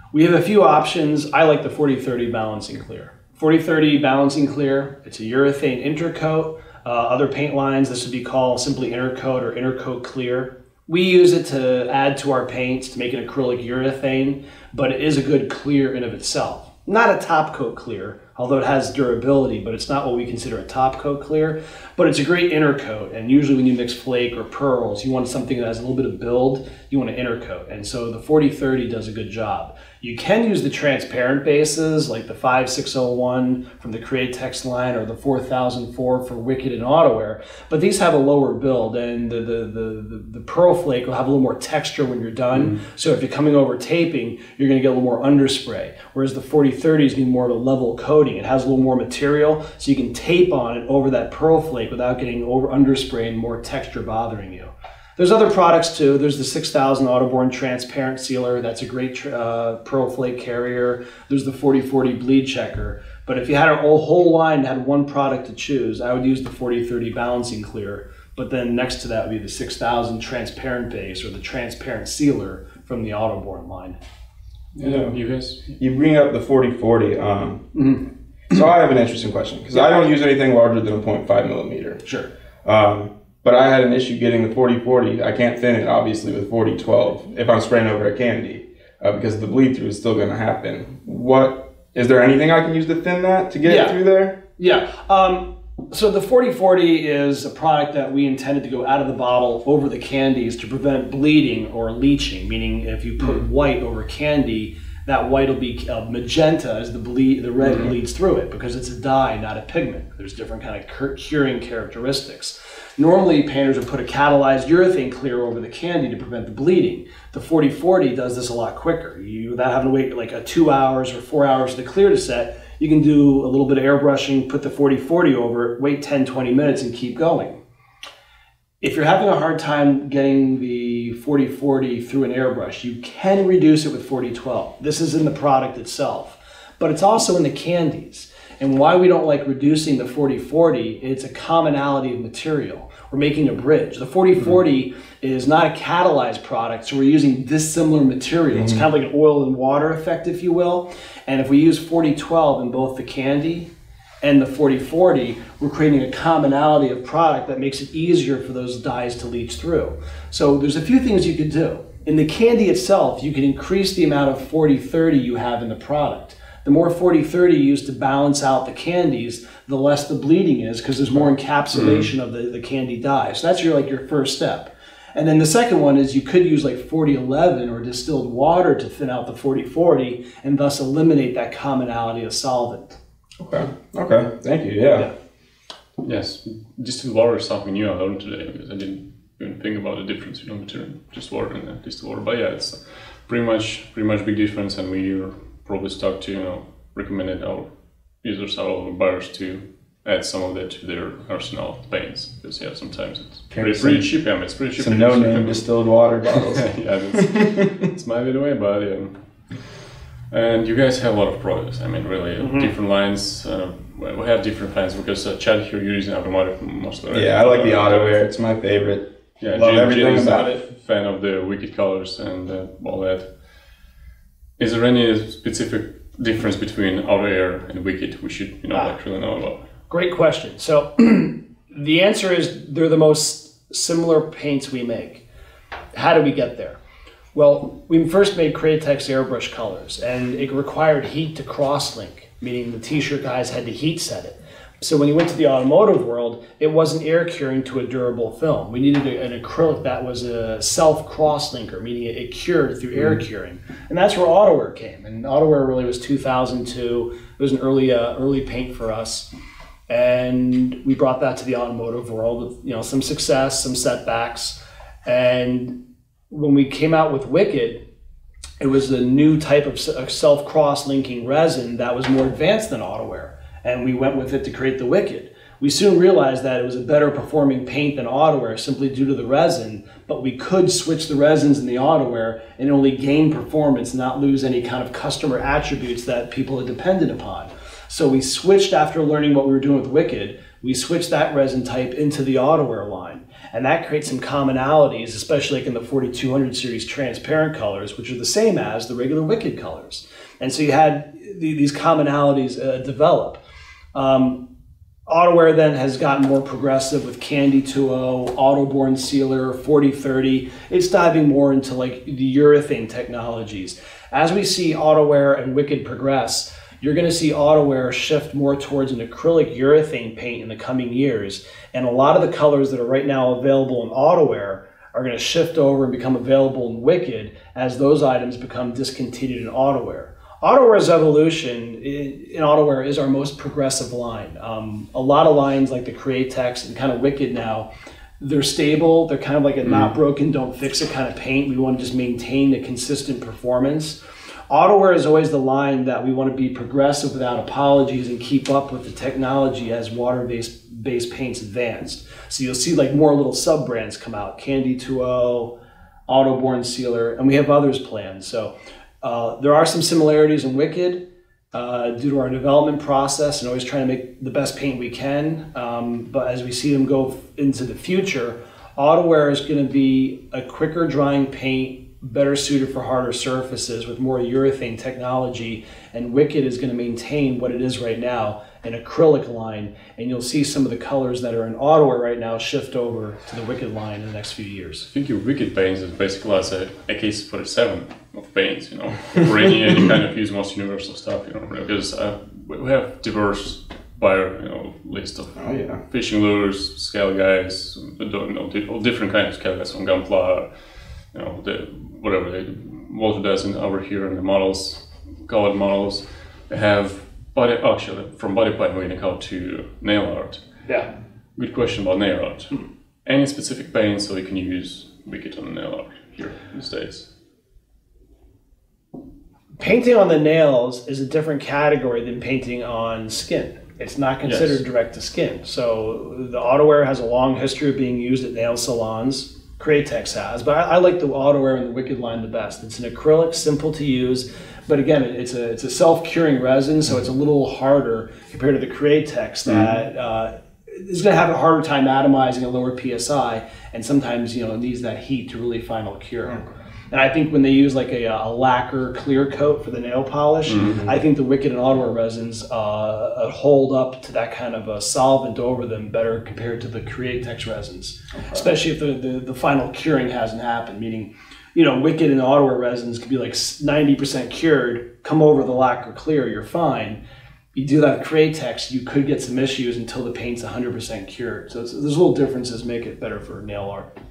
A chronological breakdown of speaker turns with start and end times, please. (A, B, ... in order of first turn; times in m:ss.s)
0:00.1-1:14.0 A
1:14.7-1:15.7 B
1:14.8-1:15.2 C
1:15.8-1:17.8 C
1:17.7-1:18.0 A
1:18.5-1:22.0 C
1:22.6-1:34.4 C
1:33.6-1:34.0 A
1:34.6-2:07.6 A
1:47.6-1:47.9 B
2:08.8-2:33.7 A
2:28.5-2:28.8 C
2:34.2-3:03.0 A
2:51.7-2:52.1 B
3:03.4-3:05.1 C
3:06.0-3:17.7 B
3:18.2-3:25.7 B
3:23.5-3:24.1 C
3:24.7-3:27.8 C
3:26.4-3:29.6 B
3:30.3-3:38.3 B
3:32.4-3:32.7 A
3:37.1-3:40.6 C
3:39.4-3:43.3 B
3:44.6-3:49.7 B
3:49.9-3:55.2 A
3:55.9-3:56.8 A
3:57.3-4:19.3 A
4:19.9-4:25.8 A
4:26.3-4:27.8 A
4:28.6-5:03.4 A
5:03.9-5:04.4 A
5:05.1-5:37.7 A
5:38.2-5:44.0 A
5:44.5-5:55.5 A
5:56.1-6:24.9 A
6:24.9-6:40.5 B
6:35.4-6:35.8 C
6:41.1-6:50.4 B
6:51.4-6:57.1 B
6:59.6-7:47.0 A
7:04.2-7:04.6 B
7:30.5-7:30.8 B
7:30.6-7:31.0 C
7:38.1-7:38.5 C
7:47.5-7:53.9 A